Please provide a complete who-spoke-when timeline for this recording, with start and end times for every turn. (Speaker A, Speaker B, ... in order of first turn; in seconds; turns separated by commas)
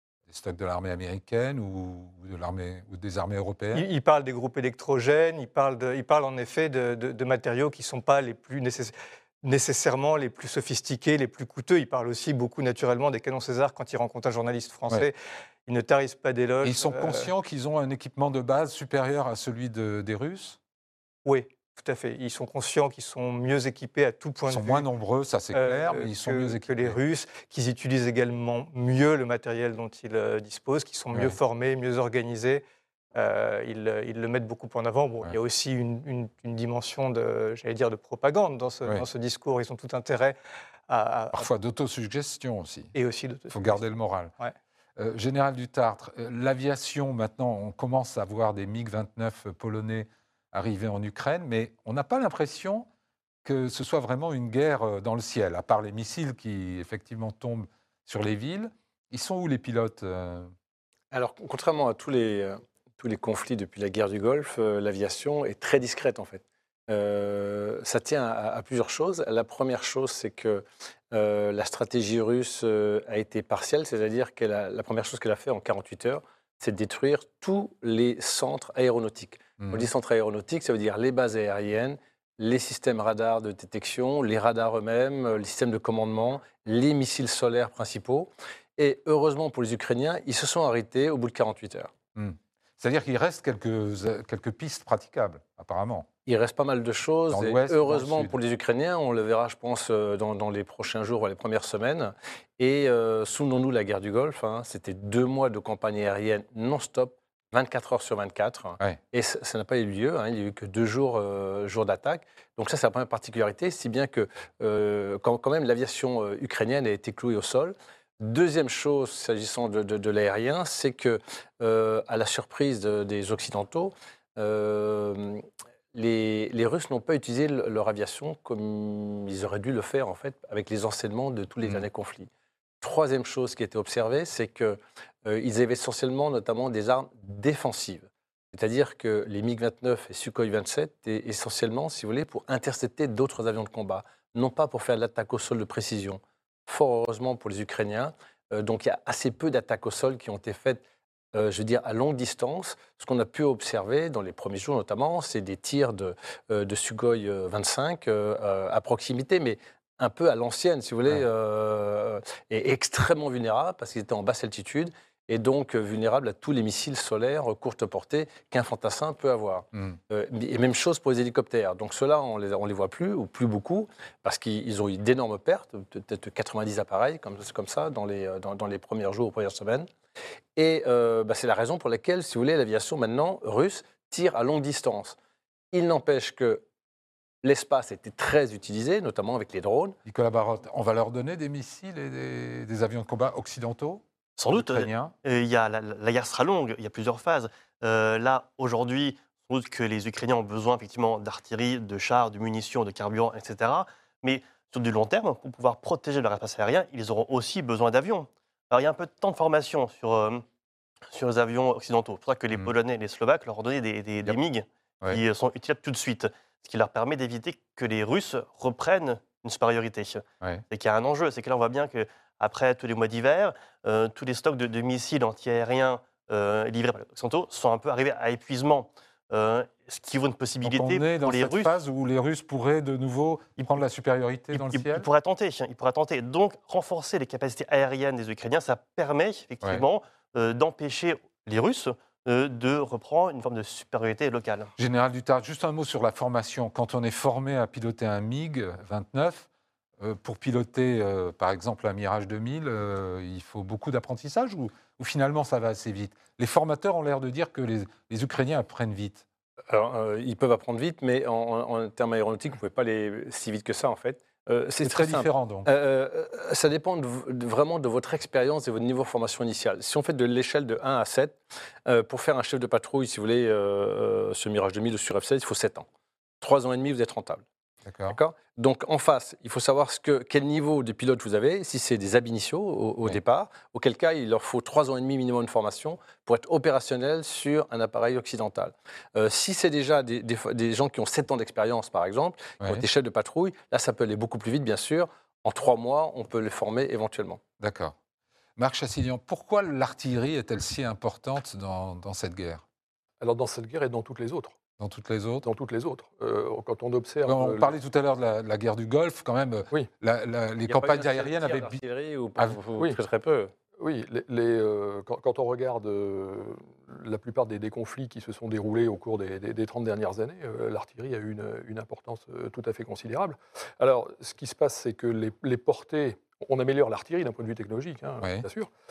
Speaker A: 0.3-3.9, Speaker B: 3.7-15.2, Speaker B: 15.7-17.3, Speaker A: 16.6-20.6, Speaker B: 21.3-24.9, Speaker A: 24.5-27.0, Speaker B: 25.5-32.6, Speaker B: 33.1-40.4, Speaker B: 40.9-41.5, Speaker A: 41.3-42.9, Speaker B: 42.9-43.9, Speaker A: 43.5-44.3, Speaker A: 45.0-52.9, Speaker A: 53.4-60.5, Speaker C: 61.1-91.9, Speaker A: 79.6-79.9, Speaker A: 92.2-96.1, Speaker C: 96.3-132.3, Speaker A: 97.3-98.3, Speaker C: 132.8-179.9, Speaker C: 180.6-185.2, Speaker C: 185.7-186.6, Speaker C: 187.4-190.0, Speaker A: 190.1-195.1, Speaker D: 194.4-210.4, Speaker D: 211.1-231.7, Speaker A: 230.6-235.1, Speaker D: 234.5-244.7, Speaker A: 244.8-249.5, Speaker A: 250.0-259.2, Speaker C: 259.7-275.9, Speaker A: 264.8-265.7, Speaker C: 276.4-277.4, Speaker A: 277.9-278.2, Speaker C: 278.1-297.4, Speaker A: 292.6-292.9, Speaker A: 297.6-298.0, Speaker A: 298.6-302.6, Speaker E: 303.2-304.5, Speaker A: 304.8-305.5, Speaker E: 305.4-307.7, Speaker A: 307.2-311.8, Speaker C: 310.6-313.5, Speaker E: 313.8-328.7